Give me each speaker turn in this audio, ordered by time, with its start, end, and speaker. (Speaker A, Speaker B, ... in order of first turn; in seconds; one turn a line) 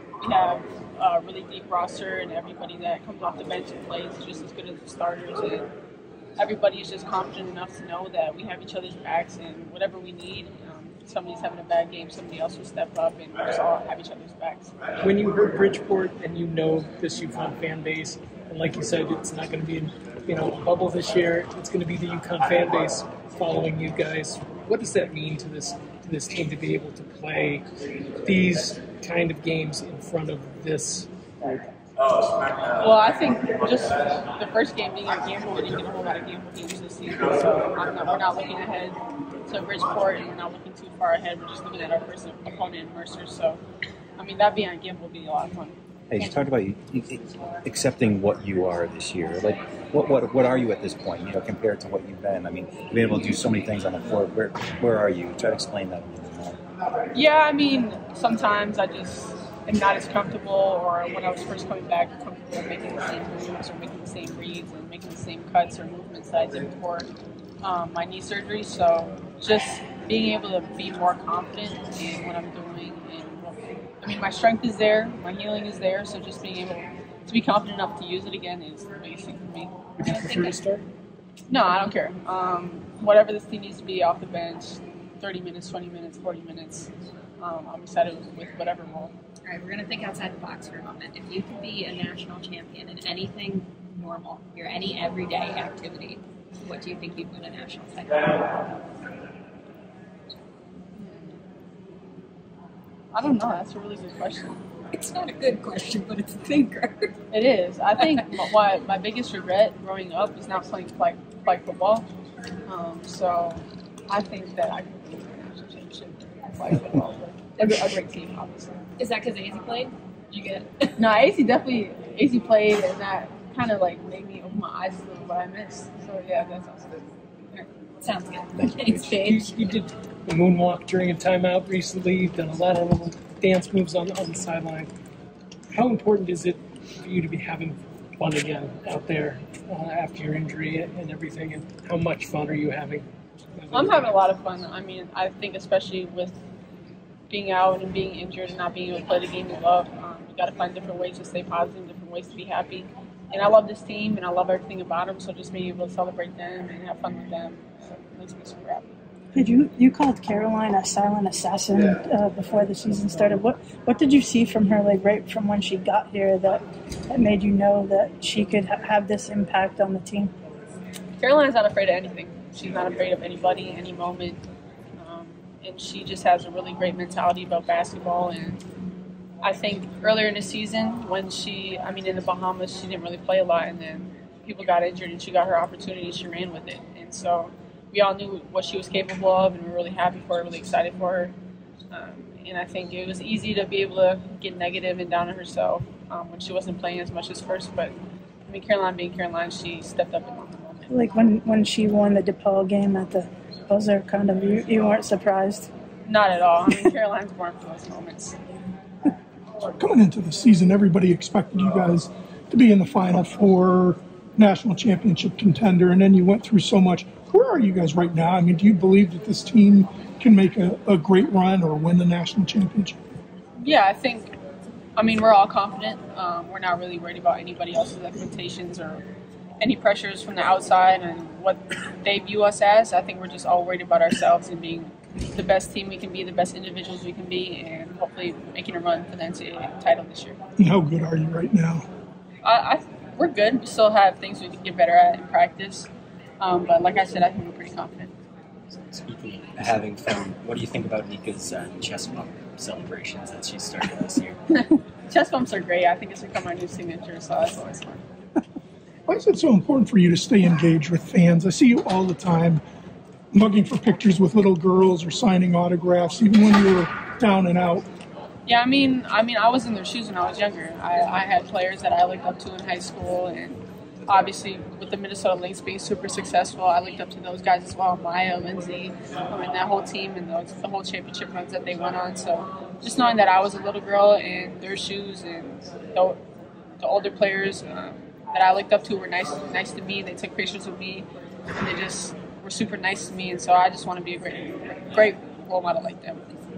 Speaker A: 0.2-5.7
Speaker A: 6.4-14.7
Speaker B: 15.0-27.6
Speaker B: 28.2-31.6
Speaker A: 32.8-43.6
Speaker A: 44.2-45.8
Speaker C: 46.1-56.6
Speaker A: 57.1-67.1
Speaker A: 67.6-80.5
Speaker B: 80.0-80.8
Speaker A: 81.5-89.1
Speaker D: 89.5-98.6
Speaker A: 101.0-101.4
Speaker A: 103.1-104.6
Speaker D: 104.9-107.1
Speaker A: 107.3-112.0
Speaker A: 112.7-118.8
Speaker D: 119.0-121.0
Speaker A: 121.0-127.7
Speaker D: 128.0-129.7
Speaker B: 129.1-134.9
Speaker B: 135.7-144.2
Speaker A: 143.7-146.4
Speaker A: 147.3-158.9
Speaker E: 159.3-170.3
Speaker A: 171.2-174.4
Speaker A: 175.0-178.6
Speaker A: 179.4-191.3
Speaker A: 191.9-197.9
Speaker A: 198.5-200.9
Speaker E: 200.9-205.7
Speaker A: 206.1-208.4
Speaker F: 209.8-223.0
Speaker A: 223.6-224.3
Speaker A: 225.0-229.0
Speaker A: 229.6-240.4
Speaker F: 240.6-241.9
Speaker A: 242.4-245.9
Speaker A: 246.4-248.1
Speaker G: 248.9-254.3
Speaker A: 254.5-258.0
Speaker F: 259.1-262.6
Speaker F: 263.3-267.9
Speaker A: 268.5-286.2
Speaker A: 286.8-296.2